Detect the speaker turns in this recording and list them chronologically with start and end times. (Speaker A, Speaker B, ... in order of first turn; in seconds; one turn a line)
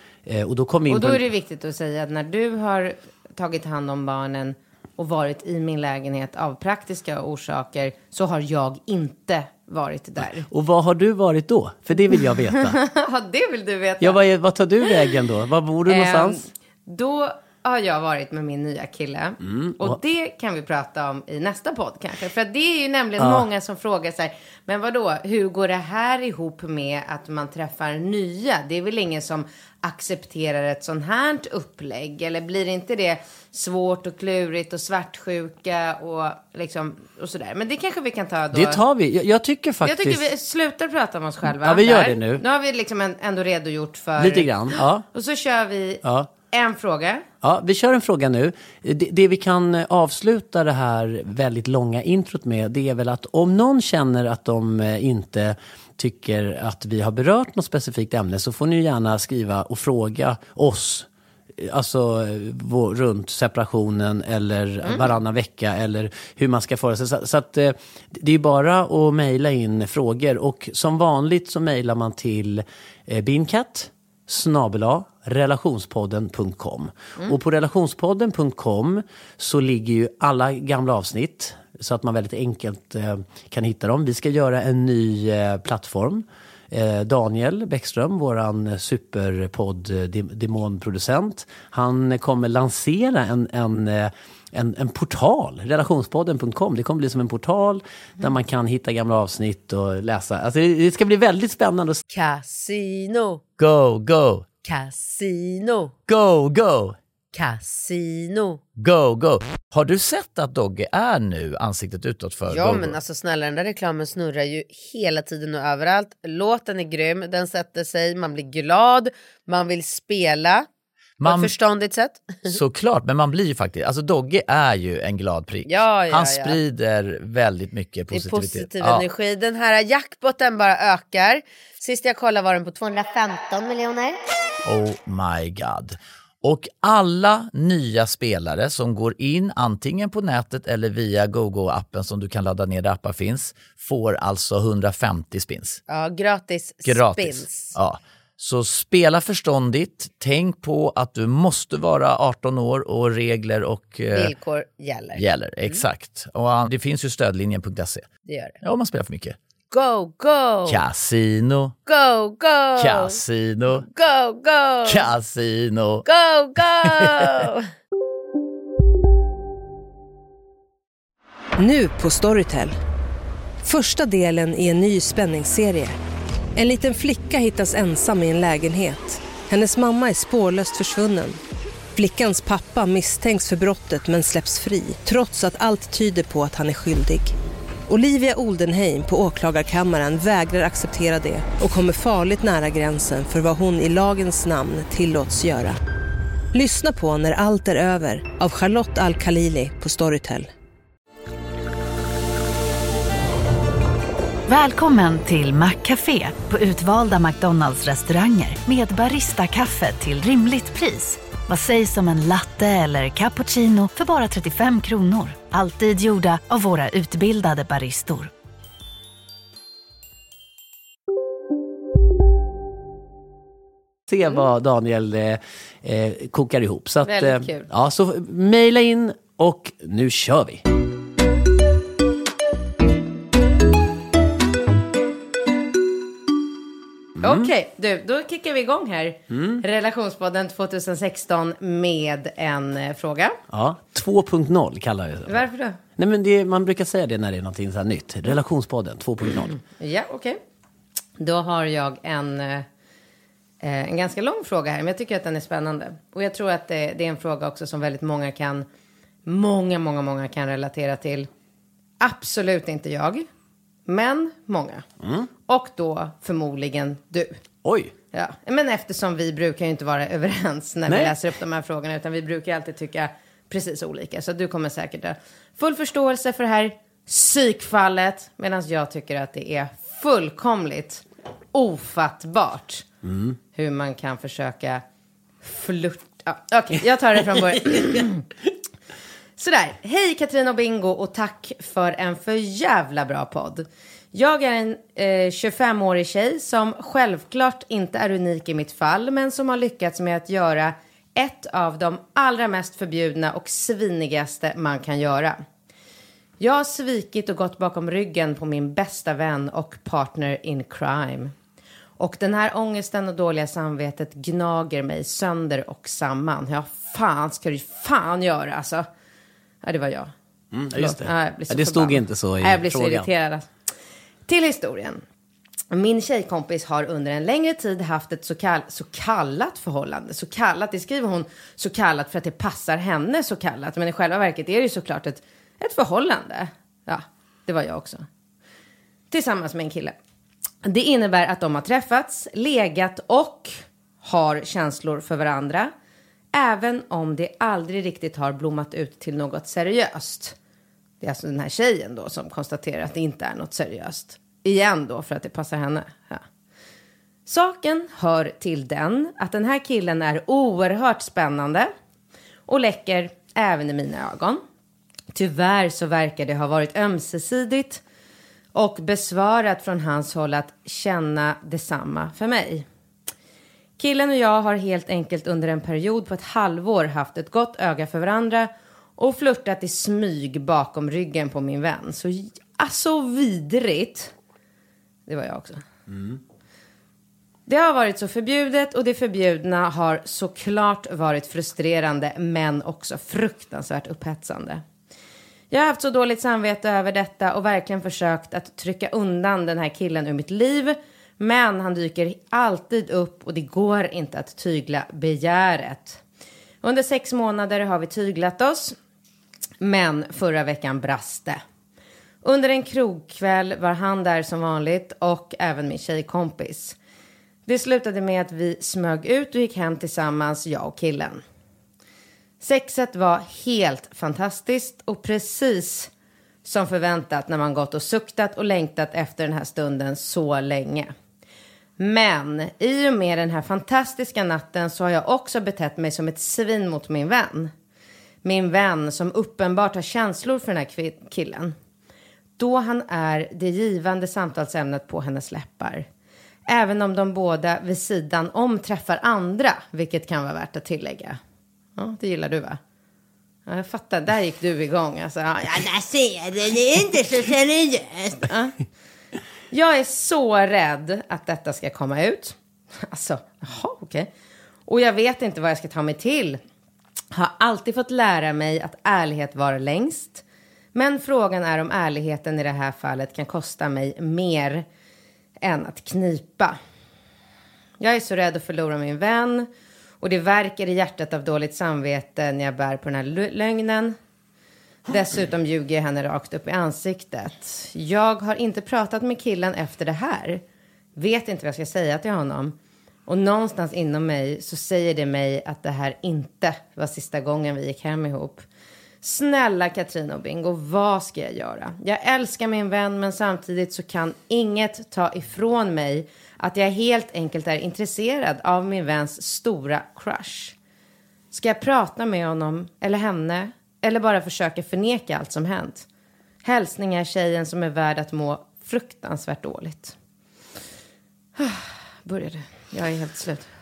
Speaker A: 0.2-1.2
Speaker B: 0.9-10.5
Speaker A: 10.5-12.8
Speaker B: 12.5-14.2
Speaker A: 14.0-16.4
Speaker B: 15.9-38.8
Speaker A: 19.4-20.0
Speaker A: 23.2-23.4
Speaker A: 38.5-40.3
Speaker B: 39.8-47.2
Speaker A: 41.4-42.4
Speaker A: 44.2-45.0
Speaker A: 46.0-46.3
Speaker A: 47.4-102.0
Speaker C: 102.1-103.4
Speaker D: 103.6-104.5
Speaker C: 104.6-106.0
Speaker D: 106.1-107.0
Speaker C: 107.3-108.6
Speaker D: 108.8-113.0
Speaker C: 112.5-120.7
Speaker D: 121.2-121.5
Speaker C: 121.2-122.5
Speaker D: 122.5-129.0
Speaker C: 125.7-126.6
Speaker C: 128.1-134.2
Speaker D: 134.6-145.8
Speaker B: 145.9-147.7
Speaker D: 146.8-154.3
Speaker B: 154.1-155.2
Speaker D: 155.2-158.1
Speaker D: 158.6-159.4
Speaker C: 159.7-160.8
Speaker D: 160.7-161.7
Speaker C: 161.9-163.2
Speaker D: 162.8-163.8
Speaker C: 163.9-165.1
Speaker D: 164.8-166.0
Speaker C: 166.0-167.7
Speaker D: 166.8-167.3
Speaker E: 171.6-172.8
Speaker E: 173.6-175.9
Speaker E: 176.6-181.4
Speaker E: 181.9-187.3
Speaker E: 187.9-195.8
Speaker E: 196.5-200.5
Speaker F: 204.5-218.3
Speaker A: 224.1-230.6
Speaker B: 227.0-227.7
Speaker A: 237.2-237.5
Speaker B: 237.2-243.4
Speaker A: 239.3-239.6
Speaker A: 243.5-245.4
Speaker B: 245.3-245.8
Speaker A: 246.0-249.6
Speaker B: 249.8-250.4
Speaker B: 251.2-252.7
Speaker B: 253.6-258.6
Speaker B: 259.2-261.3
Speaker B: 262.0-263.3
Speaker B: 263.9-264.8
Speaker A: 265.0-265.3
Speaker B: 265.5-267.4
Speaker A: 267.6-267.9
Speaker B: 268.1-281.0
Speaker A: 270.9-271.1
Speaker B: 281.5-282.9
Speaker A: 283.0-283.4
Speaker B: 283.5-284.8
Speaker B: 285.4-288.2
Speaker A: 287.5-288.0
Speaker B: 289.4-305.4
Speaker B: 306.4-311.3
Speaker B: 312.0-318.9
Speaker B: 319.6-320.1
Speaker A: 320.5-323.1
Speaker B: 320.7-323.5
Speaker B: 324.3-325.0
Speaker B: 325.7-338.0
Speaker B: 339.1-339.9
Speaker B: 340.6-345.7
Speaker B: 346.3-350.4
Speaker B: 351.0-356.2
Speaker B: 357.2-361.7
Speaker B: 362.5-364.4
Speaker B: 365.1-367.8
Speaker B: 368.5-372.6
Speaker B: 373.8-384.1
Speaker B: 385.1-385.6
Speaker A: 385.9-386.2
Speaker B: 387.5-394.6
Speaker B: 395.5-406.0
Speaker B: 406.6-408.8
Speaker B: 409.6-411.4
Speaker B: 412.2-416.8
Speaker B: 417.4-421.2
Speaker B: 422.4-425.9
Speaker B: 426.4-430.9
Speaker B: 431.8-437.5
Speaker B: 438.2-441.5
Speaker B: 442.4-445.9
Speaker B: 446.5-451.2
Speaker B: 451.8-452.6
Speaker B: 453.5-458.6
Speaker B: 459.5-464.1
Speaker B: 464.7-466.4
Speaker B: 467.1-470.2
Speaker B: 470.7-474.6
Speaker B: 475.4-476.6
Speaker B: 477.8-479.5
Speaker B: 480.0-484.0
Speaker B: 484.9-490.4
Speaker B: 490.9-492.5
Speaker B: 493.1-498.4
Speaker B: 499.0-510.5
Speaker B: 511.3-515.9
Speaker B: 516.4-519.9
Speaker B: 521.4-523.5